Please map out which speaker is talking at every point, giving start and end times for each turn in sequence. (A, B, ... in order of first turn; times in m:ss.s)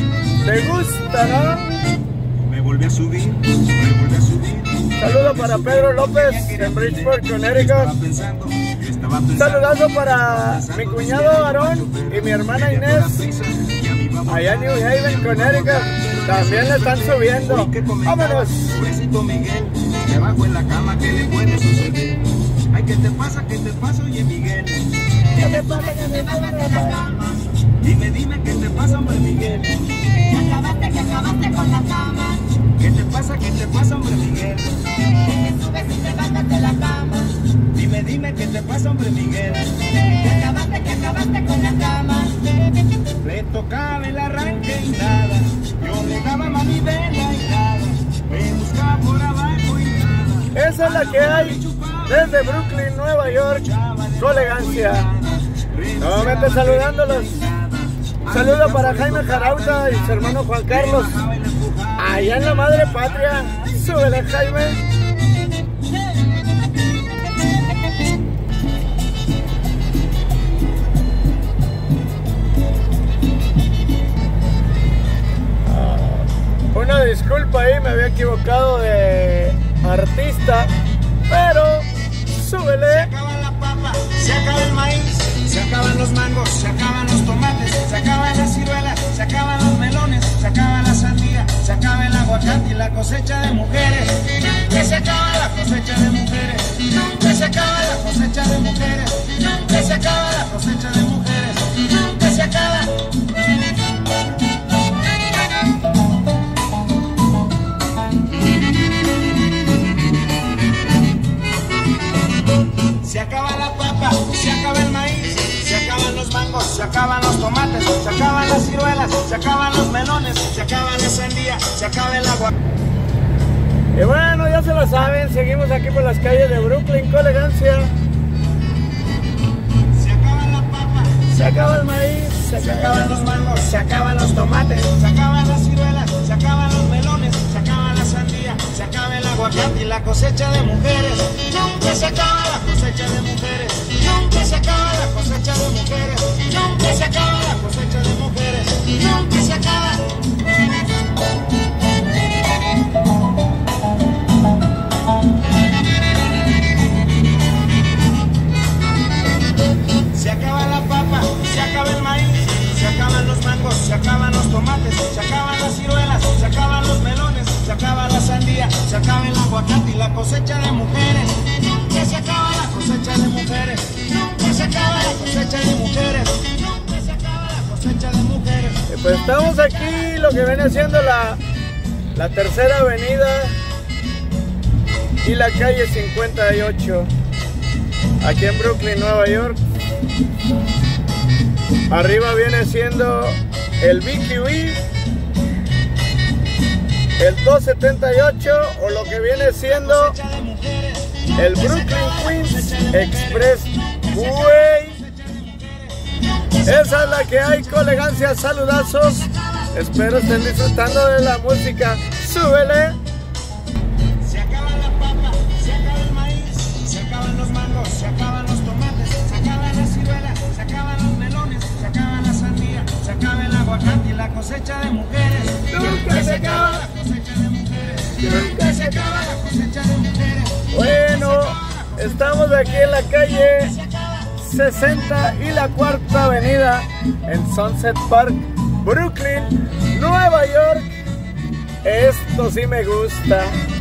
0:00.4-0:01.7 A
0:02.4-0:24.9 B
0:05.0-0:07.9 A
0:09.4-0:13.2 A
0:14.3-0:18.6 A
0:25.4-0:27.4 C
0:25.4-0:27.0 A
0:27.8-0:30.1 B
0:30.2-0:32.5 C
0:32.8-0:34.8 B
0:35.2-0:37.4 C
0:37.7-0:39.9 B
0:40.1-0:42.6 C
0:43.2-1:03.9 B
0:50.5-0:53.6 A
0:54.2-0:55.0 A
0:56.0-0:57.3 A
0:58.3-1:01.1 A
1:02.0-1:04.8 A
1:15.6-1:20.7 A
1:21.3-1:23.1 A
1:22.8-1:43.0 B
1:53.0-2:02.5 B
2:03.9-2:07.9 A
2:09.9-2:11.3 B
2:11.3-2:14.2 A
2:12.6-2:30.1 B
2:40.1-2:58.8 B
2:58.9-3:01.4 A
3:02.1-3:03.6 A
3:05.2-3:07.1 A
3:08.2-3:09.6 A
3:11.9-3:14.8 A
3:17.2-3:20.2 A
3:19.6-3:28.0 B
3:21.4-3:25.0 A
3:26.6-3:33.0 A
3:34.2-3:54.3 B
3:45.7-3:46.9 A
3:48.2-3:49.1 A
3:50.7-3:53.7 A
3:54.4-4:00.9 A
4:01.8-4:03.6 A